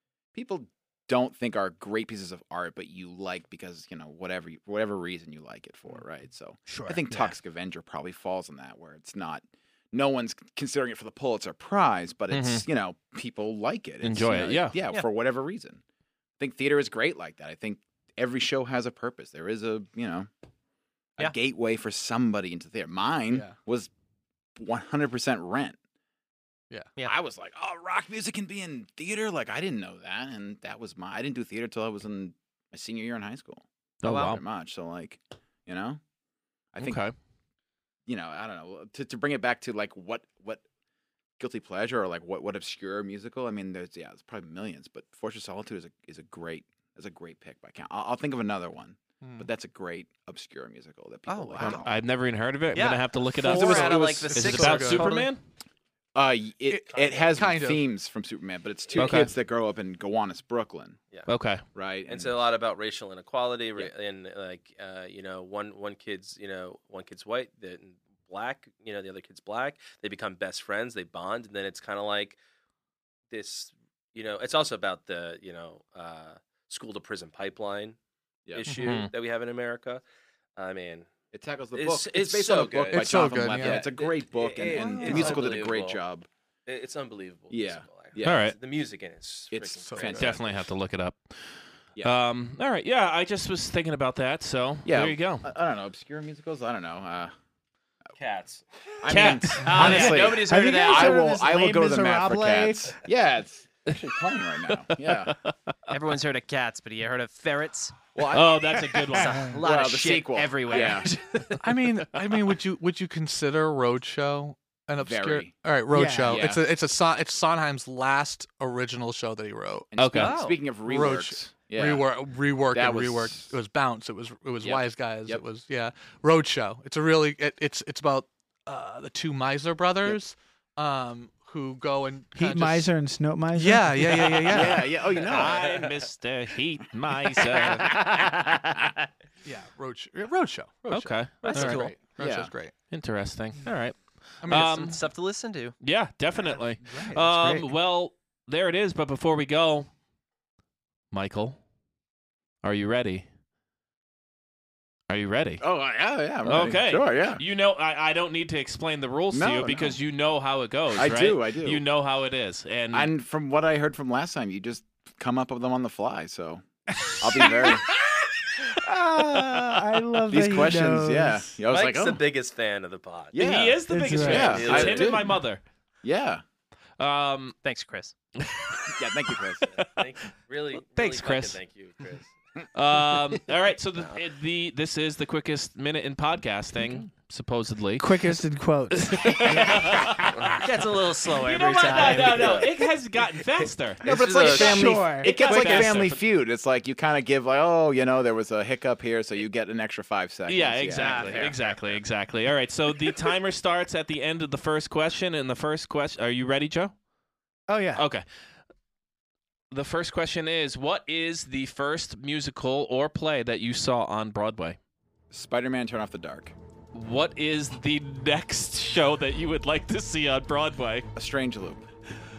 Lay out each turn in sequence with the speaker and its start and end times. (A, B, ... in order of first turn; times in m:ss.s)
0:00.3-0:15.8 A
0:06.7-0:07.3 B
0:12.3-0:12.7 C
0:14.0-0:14.8 C
0:16.4-0:20.3 A
0:21.2-0:23.9 A
0:23.3-0:23.6 D
0:24.6-0:25.8 A
0:27.0-0:36.0 A
0:34.0-0:34.4 C
0:34.0-0:34.4 E
0:36.7-0:37.0 A
0:36.8-0:37.2 C
0:38.1-0:40.6 A
0:41.4-0:51.9 A
0:49.2-0:49.5 D
0:51.3-0:51.9 E
0:51.6-0:55.4 C
0:52.7-0:55.3 E
0:53.5-0:55.2 D
0:53.7-0:54.3 A
0:56.2-1:01.0 A
0:56.7-0:57.9 D
0:59.0-0:59.3 C
1:01.3-1:01.6 C
1:01.7-1:02.4 A
1:02.1-1:12.4 F
1:13.3-1:18.0 F
1:18.5-1:18.8 A
1:18.5-1:20.0 F
1:18.7-1:19.0 D
1:18.8-1:19.1 C
1:20.6-1:21.1 F
1:21.3-1:26.3 A
1:21.7-1:26.0 F
1:22.9-1:23.9 D
1:24.6-1:25.5 D
1:25.0-1:25.4 E
1:26.7-1:30.5 F
1:27.5-1:28.4 A
1:28.2-1:28.6 C
1:29.5-1:30.5 A
1:29.8-1:30.3 D
1:30.2-1:31.4 C
1:32.0-1:35.5 C
1:34.9-1:37.3 A
1:38.2-1:38.7 F
1:39.0-1:45.4 A
1:39.1-1:40.2 C
1:39.6-1:41.3 E
1:39.8-1:43.0 B
1:44.9-1:45.7 C
1:45.9-1:48.0 E
1:48.2-1:48.6 A
1:48.3-1:49.6 C
1:49.1-1:51.6 E
1:49.2-1:49.5 B
1:49.6-1:51.1 A
1:51.6-1:59.9 D
1:55.0-1:55.6 A
1:55.9-1:56.5 B
1:56.2-1:56.7 A
1:59.9-2:02.1 A
2:00.0-2:00.5 C
2:00.1-2:00.6 E
2:00.8-2:12.9 D
2:02.7-2:03.5 A
2:04.6-2:05.4 A
2:12.4-2:14.4 B
2:13.6-2:15.0 D
2:14.5-2:15.9 A
2:15.2-2:18.0 C
2:19.4-2:22.8 D
2:20.9-2:22.0 C
2:21.4-2:22.0 E
2:22.2-2:22.5 A
2:22.9-2:25.0 C
2:24.4-2:24.9 D
2:24.6-2:25.8 E
2:25.8-2:29.9 C
2:26.9-2:27.7 B
2:31.1-2:31.6 C
2:32.6-2:33.3 C
2:35.1-2:35.6 C
2:35.6-2:37.4 A
2:36.4-2:43.1 C
2:39.3-2:40.0 A
2:41.0-2:41.8 A
2:42.9-2:46.6 A
2:47.2-2:47.5 C
2:47.2-2:47.9 A
2:47.2-2:47.8 B
2:48.6-2:51.6 B
2:50.3-2:52.2 A
2:51.7-2:53.4 F
2:53.3-2:55.4 A
2:53.4-2:55.6 C
2:53.9-2:54.6 B
2:54.2-2:55.3 F
2:56.0-2:56.4 A
2:57.0-2:57.6 C
2:57.6-2:58.1 E
2:58.4-2:58.7 C
2:58.9-2:59.7 A
2:59.6-3:02.4 F
3:01.0-3:01.6 C
3:02.7-3:08.1 C
3:04.0-3:04.2 F
3:08.0-3:10.1 B
3:08.9-3:10.6 C
3:10.6-3:12.7 E
3:11.3-3:16.2 C
3:11.8-3:12.7 F
3:14.0-3:15.1 F
3:14.0-3:21.9 A
3:14.6-3:15.4 B
3:20.5-3:26.9 C
3:21.0-3:21.5 E
3:27.7-3:28.0 B
3:28.0-3:28.2 C
3:29.7-3:34.8 C
3:35.3-3:36.6 A
3:36.9-3:41.1 C
3:41.2-3:41.8 A